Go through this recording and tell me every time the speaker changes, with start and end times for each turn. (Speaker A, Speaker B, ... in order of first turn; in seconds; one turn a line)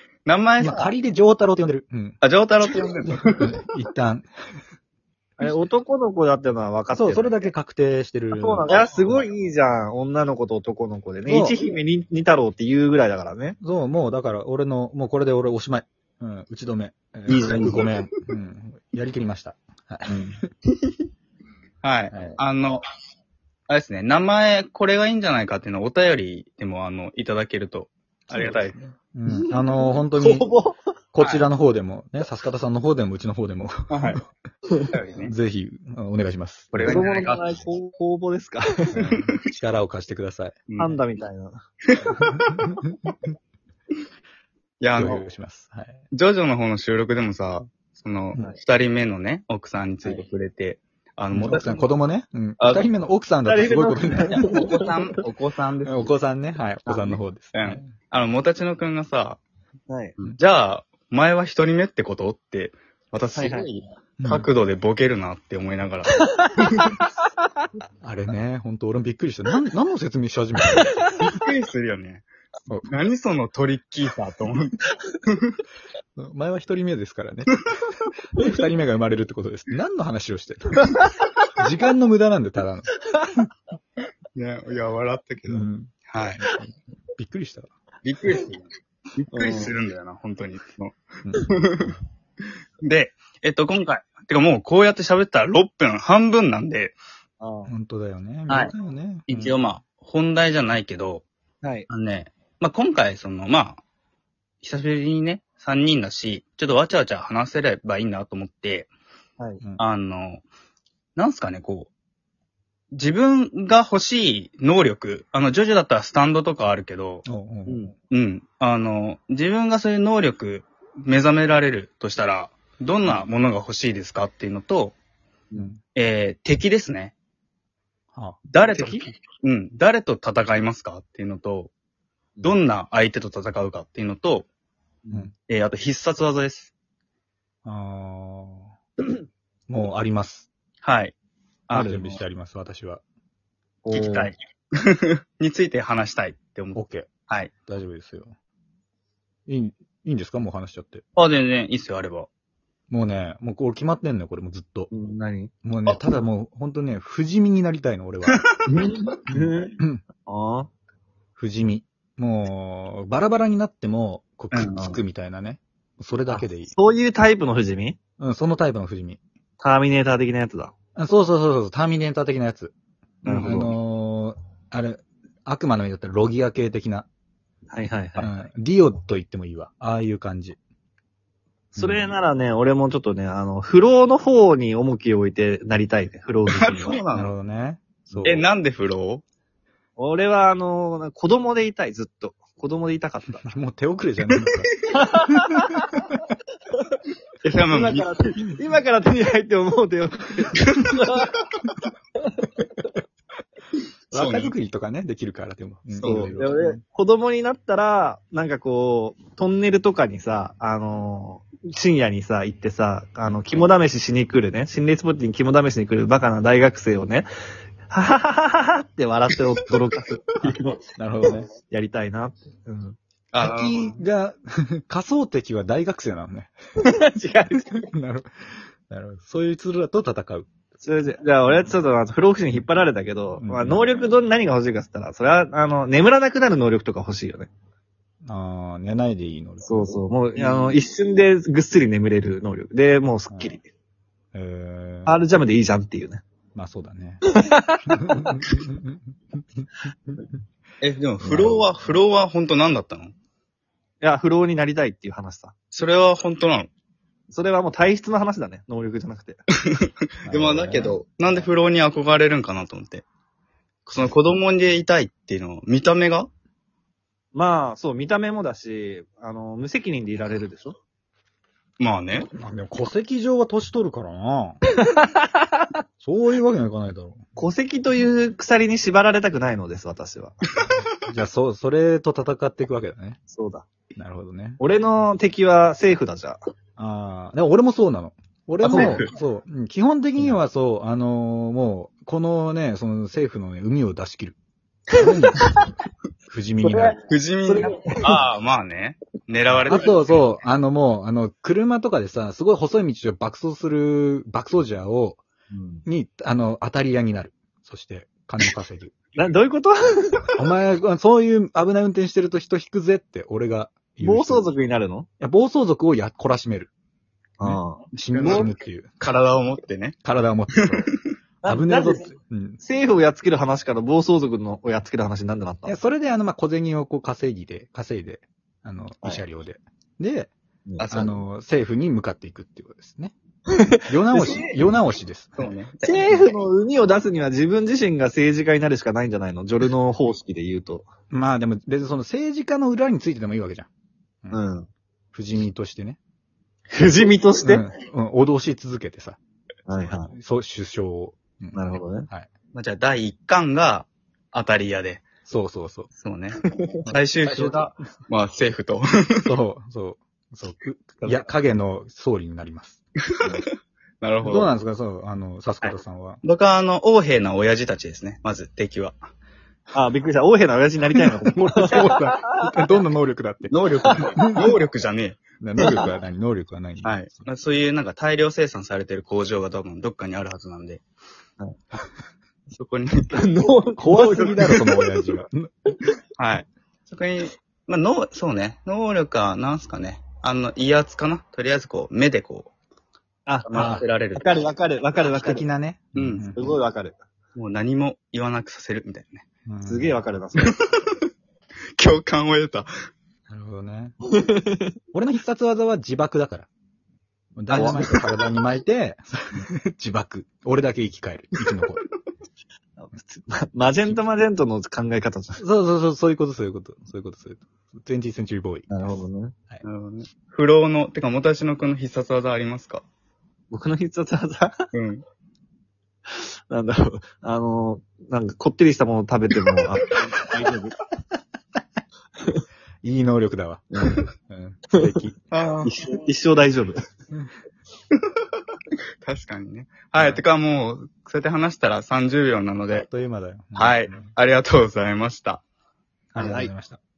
Speaker A: 0.2-0.9
Speaker B: 0.6-2.2
Speaker A: 2.2-3.4
Speaker B: 3.0-4.3
Speaker C: 5.4-7.4
Speaker B: 7.0-9.2
Speaker C: 8.3-13.6
Speaker B: 11.3-11.6
Speaker B: 13.6-20.5
Speaker A: 17.3-17.9
Speaker C: 17.5-17.8
Speaker C: 20.1-20.4
Speaker A: 21.8-22.8
Speaker B: 22.1-22.4
Speaker A: 23.7-28.8
Speaker B: 28.3-30.5
Speaker C: 29.3-30.8
Speaker B: 31.1-34.2
Speaker A: 31.2-31.4
Speaker A: 33.9-34.2
Speaker A: 34.9-35.3
Speaker B: 35.3-37.0
Speaker A: 36.7-37.6
Speaker C: 36.8-39.0
Speaker B: 38.9-40.6
Speaker A: 40.7-41.0
Speaker C: 40.8-41.5
Speaker A: 41.9-42.6
Speaker B: 42.3-43.1
Speaker A: 44.8-45.2
Speaker B: 45.0-46.0
Speaker A: 46.1-51.9
Speaker B: 51.3-54.5
Speaker A: 52.6-52.9
Speaker C: 53.5-54.9
Speaker A: 54.3-56.1
Speaker B: 55.9-57.9
Speaker A: 57.0-59.4
Speaker C: 59.9-60.2
Speaker A: 60.2-66.9
Speaker C: 63.4-63.7
Speaker B: 64.2-64.5
Speaker B: 68.0-71.2
Speaker A: 71.2-72.3
Speaker A: 72.9-75.6
Speaker B: 76.2-77.5
Speaker B: 78.4-80.9
Speaker B: 81.6-83.5
Speaker A: 84.3-86.5
Speaker B: 85.5-87.7
Speaker A: 88.0-91.9
Speaker C: 89.3-89.8
Speaker A: 92.8-97.0
Speaker C: 97.4-97.7
Speaker B: 97.7-99.6
Speaker A: 99.3-101.2
Speaker C: 101.6-101.9
Speaker A: 101.9-103.8
Speaker A: 104.6-108.9
Speaker A: 109.8-110.4
Speaker A: 111.2-111.9
Speaker A: 112.9-117.2
Speaker B: 117.2-117.9
Speaker A: 118.1-125.0
Speaker B: 125.5-125.8
Speaker A: 125.9-127.2
Speaker B: 128.1-128.8
Speaker A: 128.5-131.7
Speaker C: 128.7-129.0
Speaker A: 132.4-134.5
Speaker C: 135.1-135.3
Speaker A: 135.5-136.7
Speaker B: 137.6-138.7
Speaker B: 139.7-140.5
Speaker A: 140.8-141.2
Speaker A: 141.7-142.0
Speaker C: 141.7-142.2
Speaker B: 141.7-143.0
Speaker C: 143.8-144.3
Speaker A: 143.9-147.5
Speaker B: 146.8-147.1
Speaker B: 147.7-148.3
Speaker B: 149.5-151.0
Speaker A: 151.2-152.3
Speaker B: 152.9-154.9
Speaker C: 154.9-155.5
Speaker B: 155.6-158.5
Speaker A: 158.3-159.1
Speaker C: 158.7-160.7
Speaker B: 159.3-160.0
Speaker B: 161.4-166.7
Speaker A: 164.5-165.0
Speaker C: 166.3-168.0
Speaker B: 168.2-169.2
Speaker C: 169.6-170.7
Speaker B: 171.0-177.1
Speaker C: 173.2-173.8
Speaker C: 177.7-178.3
Speaker B: 178.2-180.6
Speaker B: 181.8-182.1
Speaker C: 181.8-187.0
Speaker A: 186.5-187.3
Speaker B: 187.1-188.5
Speaker A: 188.2-189.2
Speaker C: 190.0-193.5
Speaker B: 193.4-194.7
Speaker C: 194.9-195.8
Speaker B: 195.3-196.2
Speaker C: 197.4-201.3
Speaker A: 197.5-198.1
Speaker A: 200.6-201.4
Speaker A: 204.1-204.5
Speaker B: 204.1-206.8
Speaker A: 205.9-206.4
Speaker C: 206.0-217.3
Speaker C: 217.9-223.0
Speaker B: 221.0-221.5
Speaker A: 223.3-224.0
Speaker B: 223.4-226.5
Speaker C: 227.1-227.8
Speaker B: 227.8-228.3
Speaker B: 228.9-230.5
Speaker C: 230.8-237.5
Speaker B: 233.4-233.9
Speaker B: 238.2-239.9
Speaker C: 239.6-243.6
Speaker B: 240.4-240.7
Speaker B: 244.3-245.2
Speaker C: 245.1-246.2
Speaker B: 246.6-247.3
Speaker C: 247.3-248.4
Speaker B: 247.9-249.7
Speaker A: 250.8-253.2
Speaker C: 251.3-251.6
Speaker C: 254.0-255.5
Speaker A: 255.7-256.7
Speaker C: 257.3-259.4
Speaker A: 259.7-263.1
Speaker B: 260.2-261.5
Speaker A: 263.9-266.3
Speaker C: 267.3-270.8
Speaker A: 271.8-272.3
Speaker B: 272.3-274.6
Speaker C: 274.8-275.7
Speaker B: 276.0-277.2
Speaker C: 277.4-280.4
Speaker B: 281.1-283.2
Speaker C: 283.3-283.7
Speaker B: 283.9-284.6
Speaker C: 284.6-286.4
Speaker B: 286.8-294.4
Speaker A: 288.6-289.1
Speaker C: 288.7-289.1
Speaker B: 294.9-295.4
Speaker C: 294.9-295.5
Speaker B: 296.3-297.0
Speaker C: 296.6-298.2
Speaker A: 297.0-300.2
Speaker B: 299.5-305.2
Speaker C: 305.5-305.9
Speaker B: 305.9-309.0
Speaker C: 309.2-310.2
Speaker B: 310.4-314.5
Speaker C: 314.0-315.1
Speaker B: 315.2-316.7
Speaker C: 317.4-318.5
Speaker B: 317.4-319.0
Speaker A: 318.1-320.0
Speaker B: 320.0-320.9
Speaker A: 320.6-321.0
Speaker C: 321.4-325.8
Speaker B: 321.4-322.6
Speaker B: 325.7-330.3
Speaker C: 330.7-331.2
Speaker B: 330.9-333.1
Speaker C: 333.7-334.5
Speaker B: 333.9-335.5
Speaker A: 335.4-336.2
Speaker C: 335.8-340.9
Speaker B: 341.1-343.7
Speaker C: 344.3-344.7
Speaker B: 345.1-346.0
Speaker C: 346.7-347.7
Speaker B: 347.4-349.2
Speaker C: 349.7-350.1
Speaker B: 350.1-352.3
Speaker C: 351.5-352.1
Speaker A: 352.5-355.1
Speaker B: 355.3-355.9
Speaker A: 355.9-359.3
Speaker B: 356.9-357.7
Speaker B: 359.2-362.8
Speaker A: 364.0-364.5
Speaker B: 364.2-366.2
Speaker A: 365.6-369.0
Speaker C: 369.7-372.1
Speaker B: 371.3-373.6
Speaker A: 373.5-375.2
Speaker B: 374.1-374.5
Speaker B: 375.4-377.3
Speaker C: 375.6-375.9
Speaker A: 376.8-380.8
Speaker A: 382.5-383.2
Speaker C: 383.1-384.7
Speaker B: 383.8-385.5
Speaker A: 386.2-392.5
Speaker A: 393.4-394.4
Speaker B: 393.5-393.9
Speaker C: 394.2-395.4
Speaker B: 395.0-396.4
Speaker A: 395.9-396.3
Speaker C: 396.4-397.0
Speaker A: 397.4-399.2
Speaker B: 399.5-400.0
Speaker C: 399.7-400.6
Speaker A: 400.4-400.9
Speaker A: 401.8-402.7
Speaker B: 403.3-403.9
Speaker C: 404.2-404.7
Speaker B: 404.9-406.5
Speaker B: 407.4-411.8
Speaker C: 407.5-408.0
Speaker C: 412.8-415.4
Speaker B: 415.4-418.7
Speaker C: 418.7-419.3
Speaker A: 419.6-422.8
Speaker C: 423.5-424.7
Speaker A: 424.7-425.0
Speaker C: 426.1-430.8
Speaker B: 432.8-435.2
Speaker C: 433.8-434.1
Speaker A: 435.3-435.7
Speaker C: 435.6-436.8
Speaker A: 439.0-442.9
Speaker B: 440.0-440.2
Speaker B: 442.8-444.1
Speaker A: 443.6-445.4
Speaker B: 446.1-446.8
Speaker C: 446.2-446.5